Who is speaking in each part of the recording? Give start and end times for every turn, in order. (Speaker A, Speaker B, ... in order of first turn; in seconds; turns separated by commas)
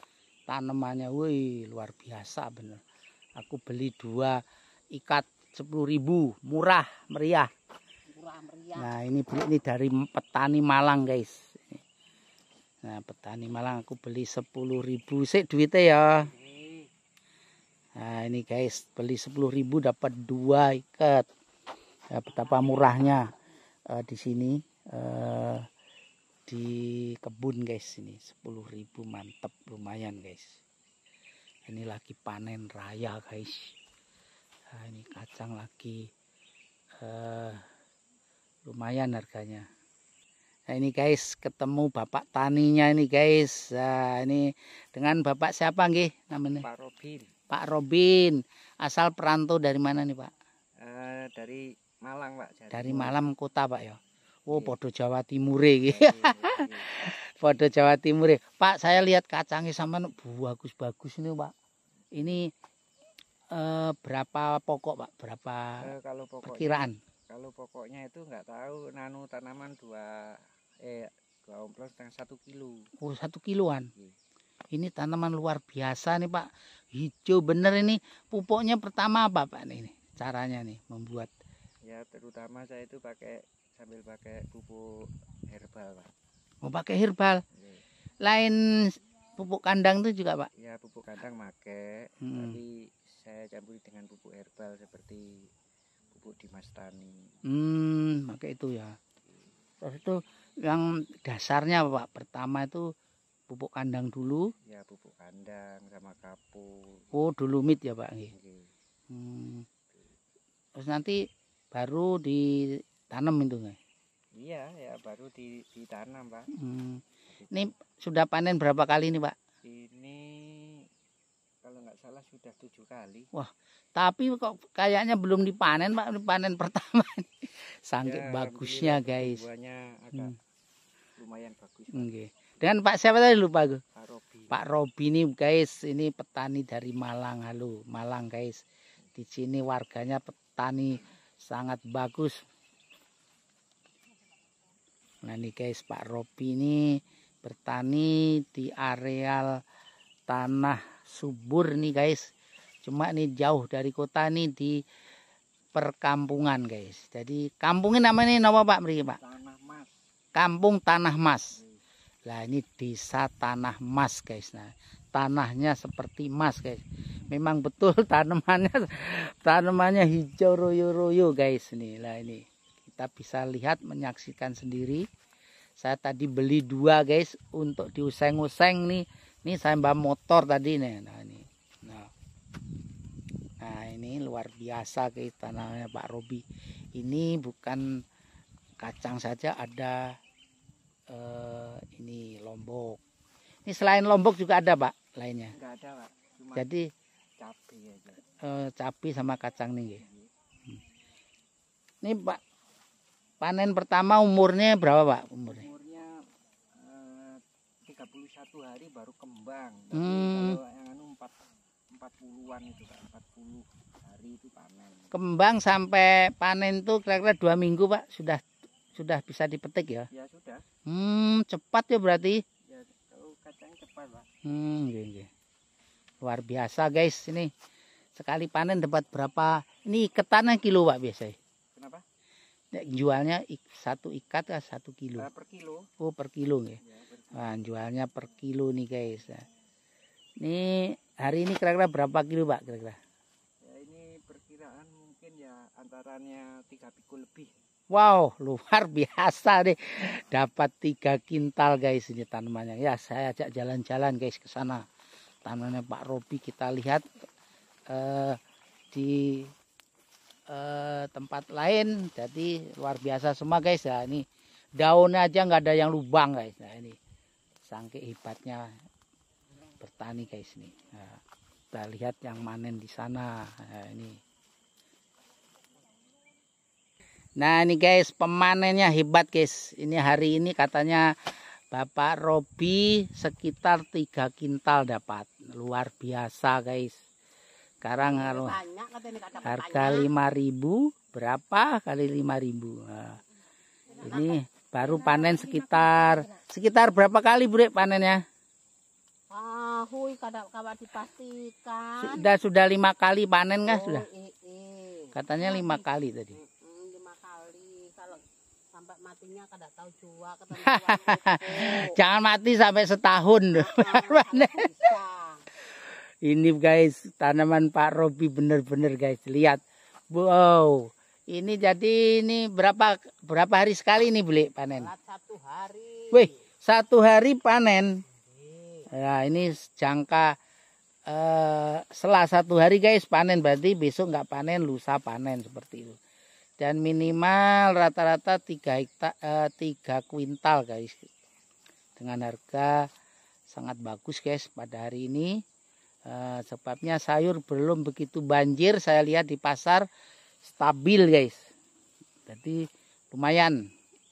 Speaker A: 0.5-2.8, Speaker A: 3.4-4.4, Speaker A: 4.9-7.5, Speaker B: 8.1-8.9, Speaker A: 8.8-11.8, Speaker A: 12.8-16.3, Speaker A: 18.0-21.3, Speaker A: 22.1-23.3, Speaker A: 23.9-25.7, Speaker A: 26.5-30.6, Speaker A: 31.7-33.7, Speaker A: 34.7-36.1, Speaker A: 37.0-37.6, Speaker A: 38.7-39.6, Speaker A: 40.7-46.6, Speaker C: 46.6-47.3, Speaker A: 47.5-50.3, Speaker C: 50.8-53.2, Speaker A: 52.7-61.5, Speaker C: 54.5-54.8, Speaker C: 55.8-56.9, Speaker A: 62.1-62.5, Speaker A: 63.5-65.8, Speaker C: 65.8-70.1, Speaker A: 66.4-67.0, Speaker C: 70.8-72.8, Speaker A: 73.0-73.9, Speaker A: 74.7-81.3, Speaker C: 81.9-84.8, Speaker C: 85.5-86.1, Speaker A: 86.6-87.4, Speaker C: 87.5-87.8, Speaker A: 88.2-88.6, Speaker A: 89.4-90.5, Speaker C: 90.6-95.5, Speaker A: 92.2-92.6, Speaker C: 96.1-97.1, Speaker A: 97.5-99.0, Speaker A: 99.8-102.9, Speaker A: 103.5-104.5, Speaker C: 104.7-107.0, Speaker A: 107.1-108.3, Speaker C: 108.3-108.7, Speaker A: 109.1-109.7, Speaker A: 110.8-111.2, Speaker A: 111.7-113.8, Speaker C: 114.3-116.5, Speaker A: 116.5-119.3, Speaker C: 117.4-117.7, Speaker C: 119.6-120.8, Speaker C: 121.6-123.3, Speaker A: 123.3-129.4, Speaker C: 128.0-130.3, Speaker C: 131.2-132.1, Speaker A: 131.9-133.8, Speaker C: 133.9-134.6, Speaker A: 134.5-138.6, Speaker A: 139.2-142.3, Speaker A: 145.2-149.6, Speaker A: 150.3-152.3, Speaker A: 152.8-154.8, Speaker A: 155.8-159.2, Speaker C: 159.2-159.9, Speaker A: 160.3-161.6, Speaker C: 161.6-161.8, Speaker A: 162.3-175.0, Speaker A: 175.8-182.1, Speaker A: 183.6-186.4, Speaker A: 186.9-187.8, Speaker A: 188.8-190.1, Speaker A: 191.1-193.0, Speaker A: 193.7-195.5, Speaker C: 195.5-196.7, Speaker A: 196.5-196.8, Speaker C: 197.4-198.2, Speaker A: 198.4-200.0, Speaker C: 200.0-200.3, Speaker A: 202.0-202.4, Speaker A: 203.4-205.6, Speaker C: 205.5-206.1, Speaker C: 206.8-211.4, Speaker A: 209.9-210.6, Speaker C: 211.9-215.1, Speaker A: 215.1-218.4, Speaker A: 218.9-220.1, Speaker C: 220.1-220.6, Speaker A: 220.9-222.4, Speaker C: 222.7-224.3, Speaker A: 224.4-225.3, Speaker A: 226.2-227.5, Speaker A: 228.2-231.4, Speaker C: 231.8-232.0, Speaker A: 232.7-235.2, Speaker C: 235.2-235.9, Speaker A: 236.0-236.8, Speaker C: 236.8-237.6, Speaker A: 237.3-239.4, Speaker A: 240.4-243.0, Speaker C: 243.6-247.5, Speaker A: 247.9-254.8, Speaker A: 255.4-257.0, Speaker A: 257.9-258.4, Speaker A: 258.9-259.5, Speaker A: 260.5-264.2, Speaker A: 264.8-267.0, Speaker A: 267.7-268.7, Speaker A: 269.8-271.2, Speaker A: 271.7-274.2, Speaker A: 277.4-287.0, Speaker A: 287.8-288.6, Speaker B: 288.0-290.1, Speaker A: 289.4-293.2, Speaker B: 294.0-296.4, Speaker A: 294.0-298.2, Speaker B: 299.3-302.3, Speaker A: 302.0-304.1, Speaker B: 303.7-312.0, Speaker A: 305.1-306.4, Speaker A: 310.5-314.9, Speaker B: 313.5-315.4, Speaker A: 316.2-319.6, Speaker A: 320.1-324.9, Speaker B: 324.8-326.3, Speaker A: 326.1-327.9, Speaker B: 328.3-328.9, Speaker A: 328.9-330.3, Speaker A: 331.1-336.0, Speaker A: 336.6-341.1, Speaker A: 342.0-342.7, Speaker A: 343.5-345.3, Speaker A: 346.1-349.9, Speaker A: 350.4-351.4, Speaker A: 352.3-352.6, Speaker A: 353.1-353.6